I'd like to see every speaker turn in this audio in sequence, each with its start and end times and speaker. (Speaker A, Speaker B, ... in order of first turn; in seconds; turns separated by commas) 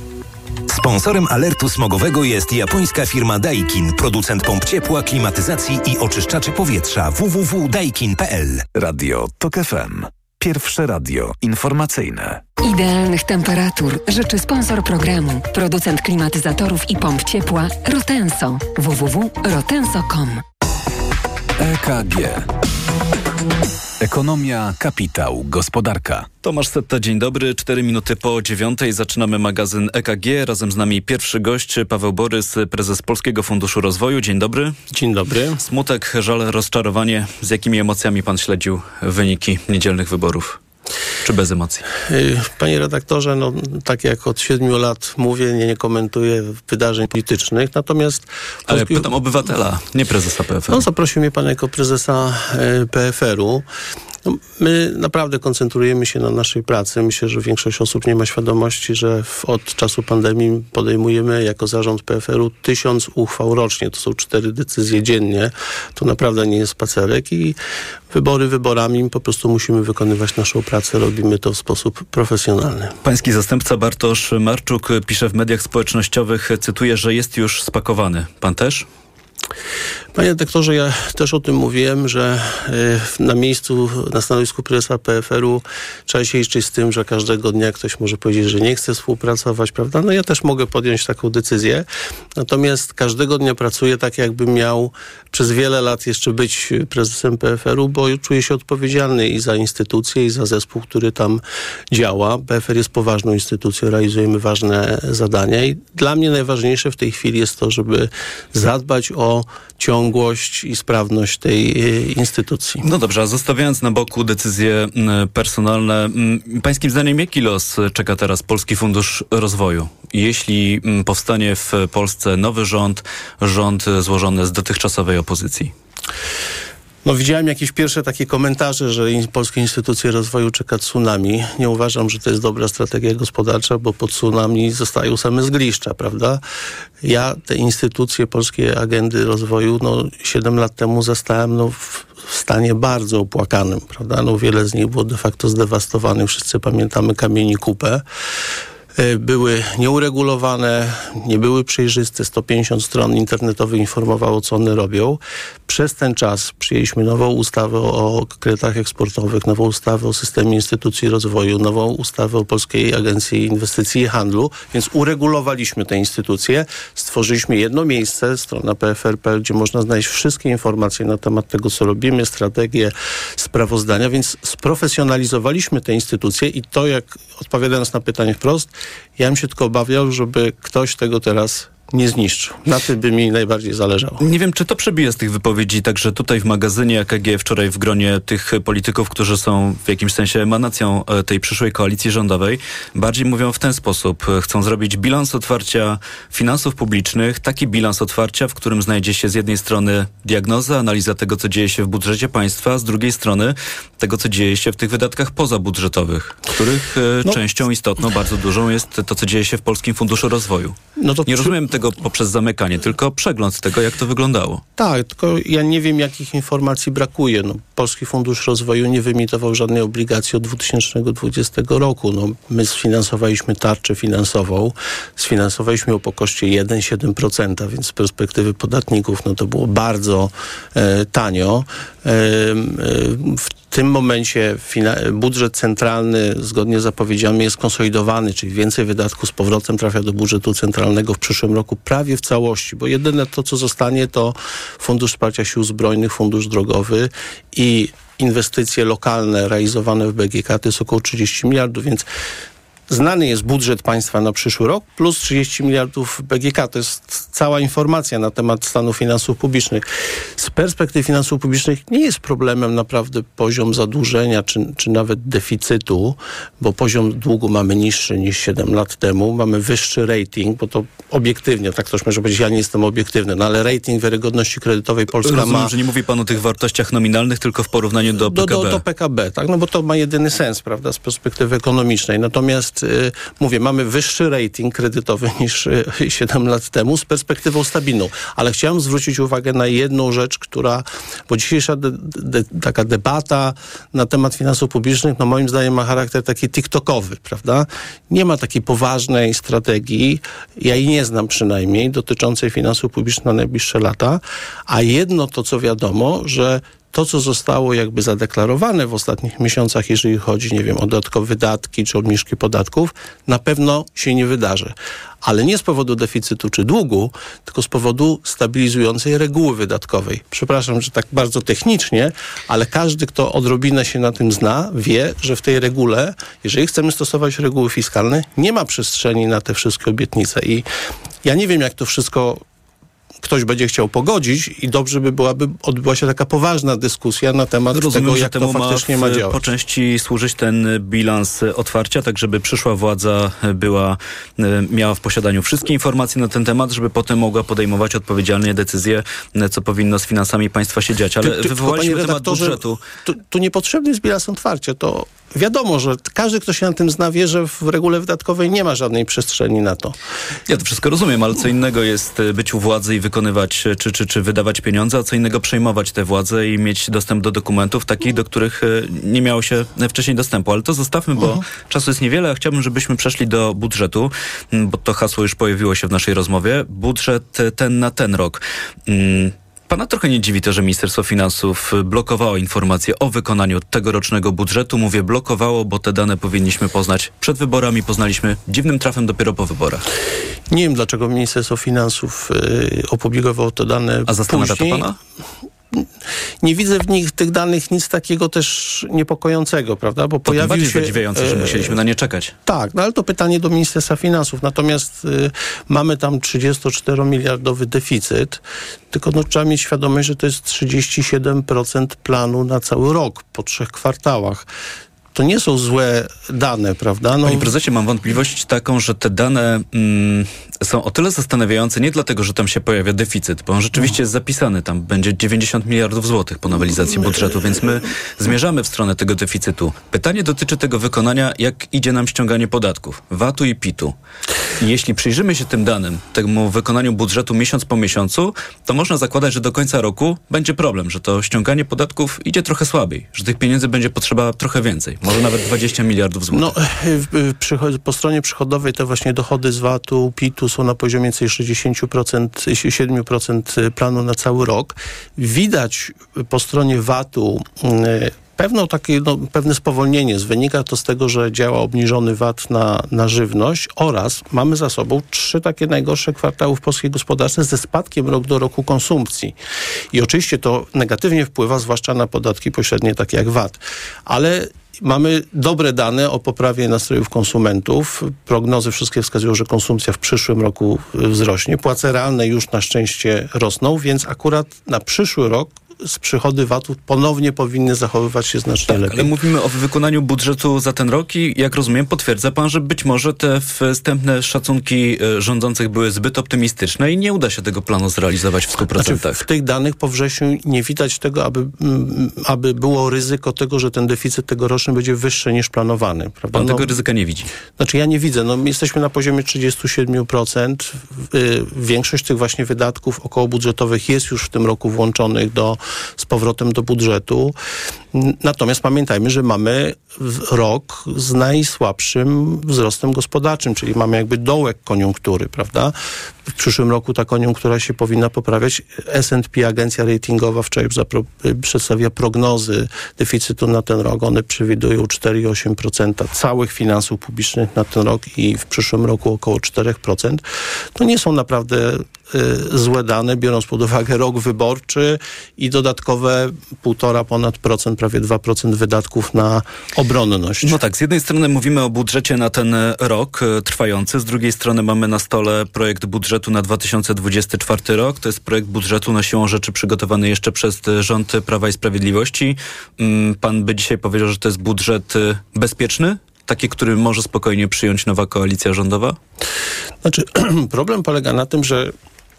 Speaker A: 0.7-8.6, Speaker B: 8.7-12.4, Speaker C: 12.6-20.4, Speaker B: 21.6-22.5, Speaker B: 24.0-26.3, Speaker D: 26.4-34.8, Speaker E: 34.9-35.6, Speaker D: 35.6-40.6, Speaker D: 41.2-41.8, Speaker E: 42.0-49.1, Speaker D: 48.7-50.8, Speaker E: 50.7-53.6, Speaker E: 54.2-67.5, Speaker E: 68.1-72.9, Speaker D: 73.0-78.9, Speaker E: 80.1-101.4, Speaker E: 101.9-112.8, Speaker D: 112.8-125.7, Speaker E: 127.0-136.4, Speaker E: 137.0-148.0, Speaker E: 148.9-184.2, Speaker D: 184.2-214.6, Speaker E: 211.0-211.6, Speaker E: 214.8-252.1, Speaker E: 252.9-259.8, Speaker E: 260.4-275.7, Speaker D: 275.2-278.8, Speaker E: 278.2-330.6, Speaker E: 331.2-332.4, Speaker E: 333.2-339.4, Speaker D: 337.7-352.8, Speaker E: 351.2-359.9, Speaker D: 360.5-389.8, Speaker E: 390.5-394.9, Speaker D: 394.1-394.9, Speaker E: 396.4-401.8, Speaker D: 400.2-402.3, Speaker E: 402.4-414.5, Speaker E: 415.1-417.5, Speaker D: 417.2-433.9, Speaker D: 434.6-446.5, Speaker E: 446.3-469.3, Speaker E: 469.9-489.1, Speaker D: 488.7-499.2, Speaker E: 498.7-506.7, Speaker D: 506.3-507.3, Speaker E: 507.6-517.3, Speaker E: 517.9-525.7, Speaker E: 526.3-540.2, Speaker E: 540.8-550.6, Speaker D: 550.4-569.0, Speaker E: 569.8-571.7